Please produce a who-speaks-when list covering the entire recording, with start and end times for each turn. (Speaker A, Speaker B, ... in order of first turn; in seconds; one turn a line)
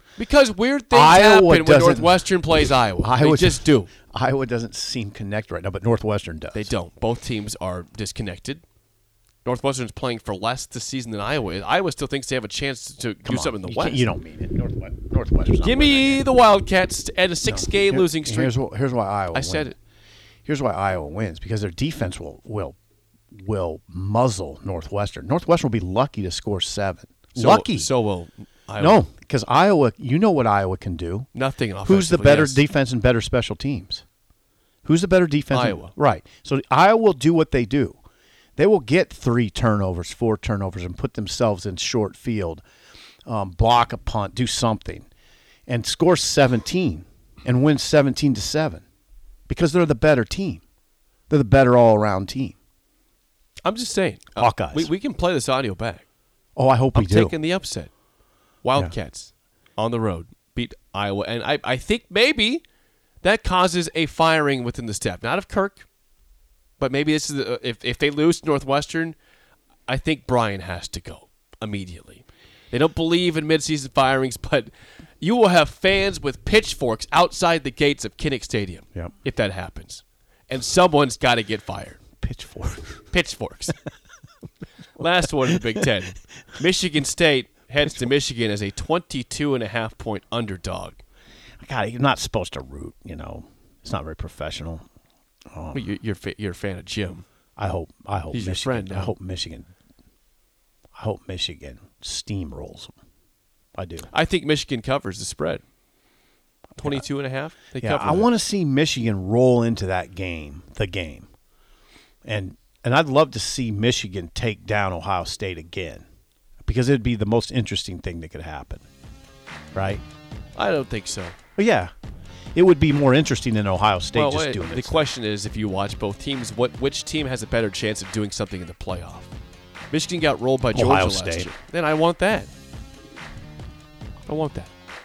Speaker A: 0.2-3.9
Speaker B: 0.9-6.7
Speaker A: 6.5-8.6
Speaker A: 9.4-14.1
Speaker B: 13.2-16.2
Speaker A: 15.6-18.5
Speaker B: 17.4-19.7
Speaker A: 19.3-19.8
Speaker B: 20.4-22.8
Speaker B: 23.3-27.9
Speaker A: 27.3-29.0
Speaker B: 28.8-31.3
Speaker A: 31.3-32.6
Speaker B: 31.8-34.0
Speaker B: 34.8-38.0
Speaker A: 35.5-35.9
Speaker B: 38.6-42.6
Speaker B: 43.2-45.1
Speaker B: 45.7-48.8
Speaker B: 49.5-50.6
Speaker B: 51.3-52.5
Speaker A: 53.6-56.0
Speaker B: 54.4-54.9
Speaker B: 56.5-57.4
Speaker A: 56.9-57.9
Speaker A: 58.6-62.6
Speaker A: 63.2-65.9
Speaker A: 66.8-69.2
Speaker A: 69.9-82.0
Speaker B: 82.2-83.0
Speaker A: 83.1-83.8
Speaker A: 85.0-91.0
Speaker B: 85.6-85.8
Speaker B: 87.8-88.1
Speaker B: 91.6-94.8
Speaker B: 95.5-95.9
Speaker A: 95.7-97.2
Speaker B: 97.6-99.7
Speaker A: 98.3-99.1
Speaker B: 101.0-102.9
Speaker B: 103.8-104.1
Speaker A: 104.1-105.6
Speaker A: 106.8-108.3
Speaker B: 106.8-107.0
Speaker B: 107.8-111.3
Speaker B: 112.2-116.0
Speaker B: 116.6-118.8
Speaker B: 119.7-120.0
Speaker A: 120.5-121.3
Speaker B: 121.6-121.9
Speaker B: 122.5-125.0
Speaker A: 124.1-129.3
Speaker A: 129.9-132.5
Speaker B: 130.7-131.5
Speaker A: 134.2-134.7